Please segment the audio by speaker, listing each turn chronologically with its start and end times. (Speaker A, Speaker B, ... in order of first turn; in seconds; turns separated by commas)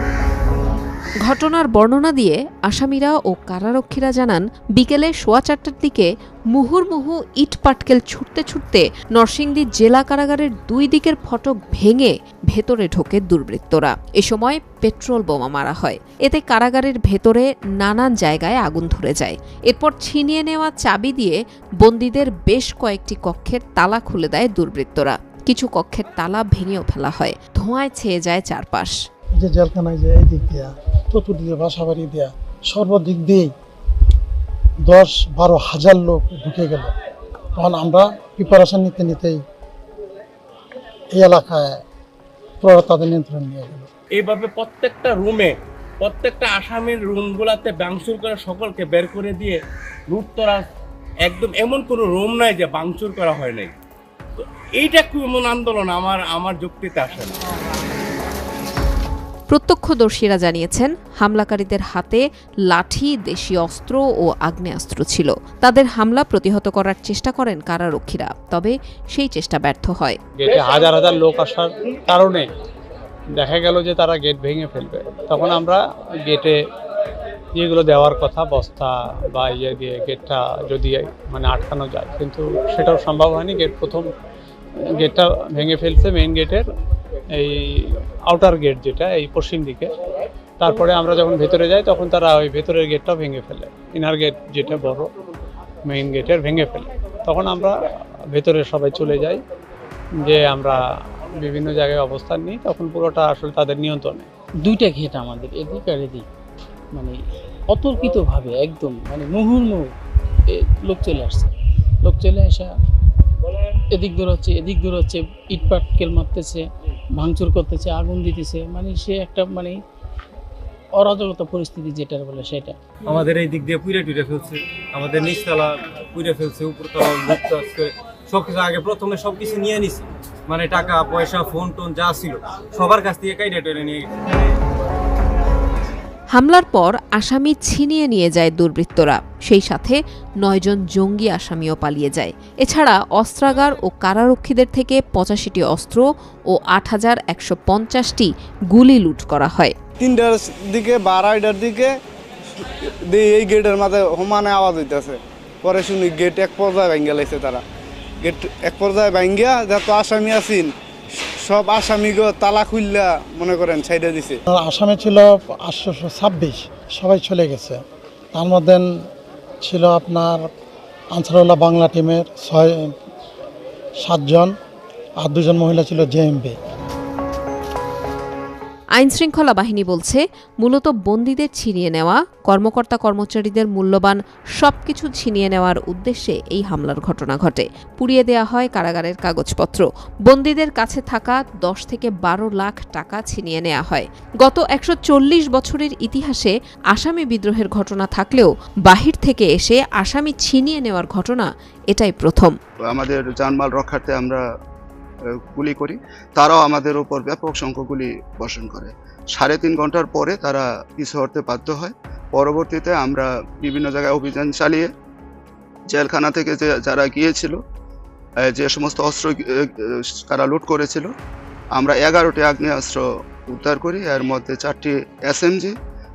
Speaker A: 1.2-28.9, Speaker B: 29.4-33.5, Speaker B: 34.9-36.9, Speaker B: 37.6-39.4, Speaker B: 41.1-41.8, Speaker B: 42.6-43.9, Speaker C: 44.2-45.4, Speaker C: 46.1-49.2, Speaker C: 50.2-50.5, Speaker C: 51.3-53.6, Speaker C: 54.8-57.2, Speaker A: 59.5-70.2, Speaker D: 70.4-72.5, Speaker D: 73.3-76.6, Speaker D: 77.5-84.1, Speaker D: 85.0-86.7, Speaker D: 87.4-89.9, Speaker D: 90.6-95.1, Speaker D: 95.8-97.8, Speaker D: 98.3-99.4, Speaker D: 100.2-100.8, Speaker D: 101.4-104.3, Speaker E: 104.6-106.2, Speaker E: 106.9-107.2, Speaker E: 107.7-109.9, Speaker E: 110.5-111.5, Speaker E: 112.0-112.8, Speaker E: 113.9-119.8, Speaker E: 120.9-122.8, Speaker F: 123.1-134.1, Speaker A: 136.3-149.7, Speaker G: 150.0-151.9, Speaker G: 153.1-157.6, Speaker G: 158.2-160.7, Speaker G: 161.4-164.4, Speaker B: 164.5-167.8, Speaker B: 168.3-168.8, Speaker B: 169.6-170.5, Speaker B: 171.1-172.9, Speaker B: 174.0-174.5, Speaker B: 175.2-176.6, Speaker A: 178.9-202.5, Speaker H: 202.9-204.4, Speaker H: 205.3-214.9, Speaker H: 215.9-217.6, Speaker H: 218.4-221.1, Speaker H: 221.7-225.8